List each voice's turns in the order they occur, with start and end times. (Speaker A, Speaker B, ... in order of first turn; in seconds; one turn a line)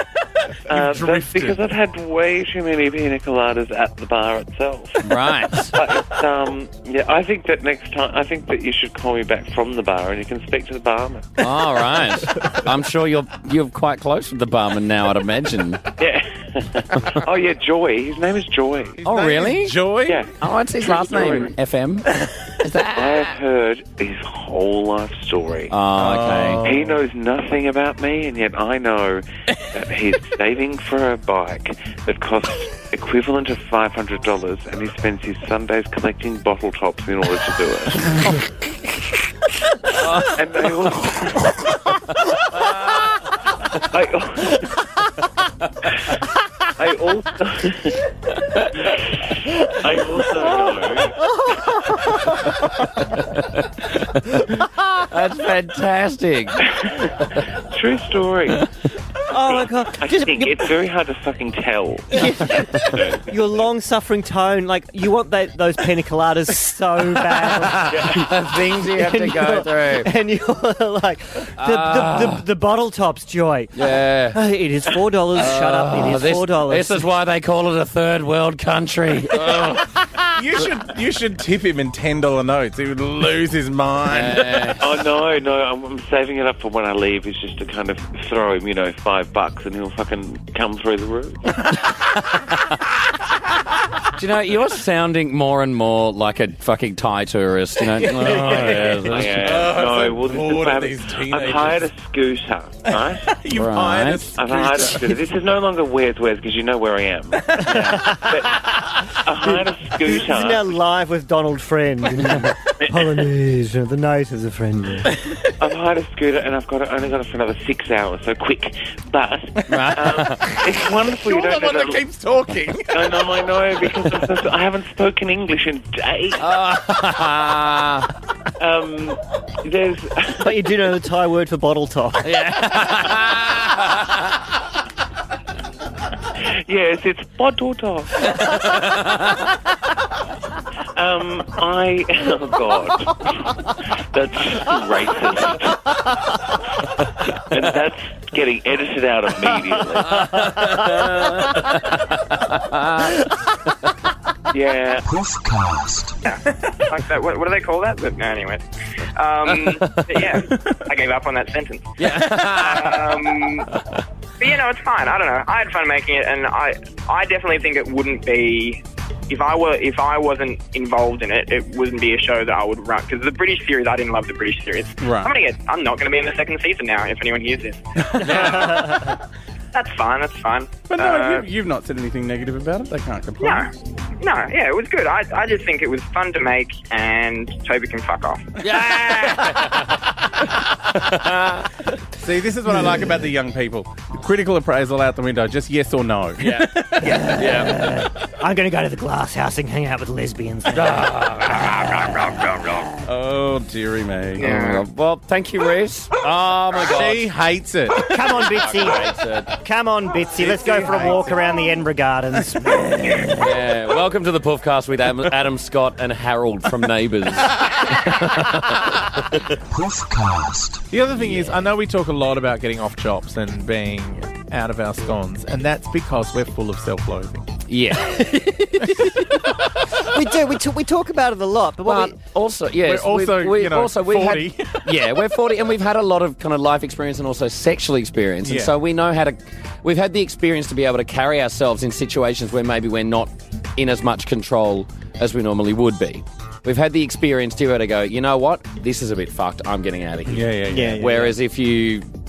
Speaker A: 0.7-1.6
Speaker B: 0.7-11.4
Speaker C: 5.0-5.7
Speaker C: 11.4-15.8
Speaker B: 16.0-19.0
Speaker A: 19.0-20.2
Speaker C: 19.0-19.8
Speaker B: 20.1-20.3
Speaker C: 20.4-22.1
Speaker B: 20.9-21.5
Speaker A: 21.1-21.4
Speaker C: 22.6-23.4
Speaker B: 22.9-25.7
Speaker C: 25.7-26.6
Speaker A: 26.0-27.0
Speaker B: 26.6-38.3
Speaker B: 40.1-41.5
Speaker C: 42.7-43.0
Speaker B: 43.9-44.6
Speaker B: 46.8-48.0
Speaker B: 49.6-51.2
Speaker D: 51.4-52.1
Speaker C: 53.3-53.6
Speaker C: 55.0-56.6
Speaker B: 56.6-56.9
Speaker B: 57.7-58.7
Speaker D: 59.3-60.7
Speaker B: 59.3-63.4
Speaker D: 62.1-68.2
Speaker B: 67.9-68.2
Speaker C: 68.1-70.1
Speaker D: 68.8-77.1
Speaker C: 71.6-72.4
Speaker C: 73.8-74.4
Speaker C: 75.3-79.9
Speaker A: 79.5-79.7
Speaker A: 80.3-84.7
Speaker C: 84.1-84.8
Speaker B: 84.8-91.4
Speaker C: 94.2-99.6
Speaker A: 98.0-101.8
Speaker B: 98.6-103.3
Speaker A: 103.1-105.2
Speaker C: 103.5-104.4
Speaker B: 104.3-110.8
Speaker A: 107.6-108.0
Speaker C: 107.7-108.0
Speaker D: 107.8-108.2
Speaker D: 109.4-115.1
Speaker B: 115.6-122.0
Speaker C: 119.7-120.4
Speaker A: 120.5-123.2
Speaker B: 122.9-126.5
Speaker C: 126.4-128.1
Speaker B: 128.6-130.6
Speaker D: 130.4-132.3
Speaker C: 132.2-134.1
Speaker B: 136.4-138.7
Speaker C: 138.4-139.2
Speaker B: 140.9-146.0
Speaker B: 147.5-150.4
Speaker C: 150.1-151.7
Speaker C: 152.5-153.1
Speaker B: 154.5-155.2
Speaker E: 156.2-158.6
Speaker E: 159.1-163.7
Speaker C: 159.7-160.1
Speaker C: 162.0-163.4
Speaker E: 164.4-178.8
Speaker A: 175.0-175.3
Speaker A: 178.1-179.0
Speaker D: 178.4-179.1
Speaker E: 179.7-181.5
Speaker A: 180.9-183.7
Speaker E: 183.4-188.4
Speaker C: 188.6-189.9
Speaker C: 191.0-191.7
Speaker A: 192.2-197.7
Speaker C: 196.4-197.8
Speaker D: 197.0-202.9
Speaker C: 200.7-202.6
Speaker A: 203.0-204.8
Speaker D: 204.4-204.8
Speaker C: 204.4-207.3
Speaker A: 206.8-208.6
Speaker D: 208.0-213.3
Speaker C: 208.5-209.5
Speaker A: 210.3-211.5
Speaker C: 213.4-218.7
Speaker A: 220.9-227.5
Speaker C: 221.1-221.6
Speaker C: 227.7-228.6
Speaker D: 228.2-229.0
Speaker A: 228.8-229.1
Speaker D: 230.0-232.2
Speaker C: 231.8-252.1
Speaker A: 232.8-235.1
Speaker A: 238.4-238.7
Speaker A: 250.3-251.4
Speaker D: 250.7-251.2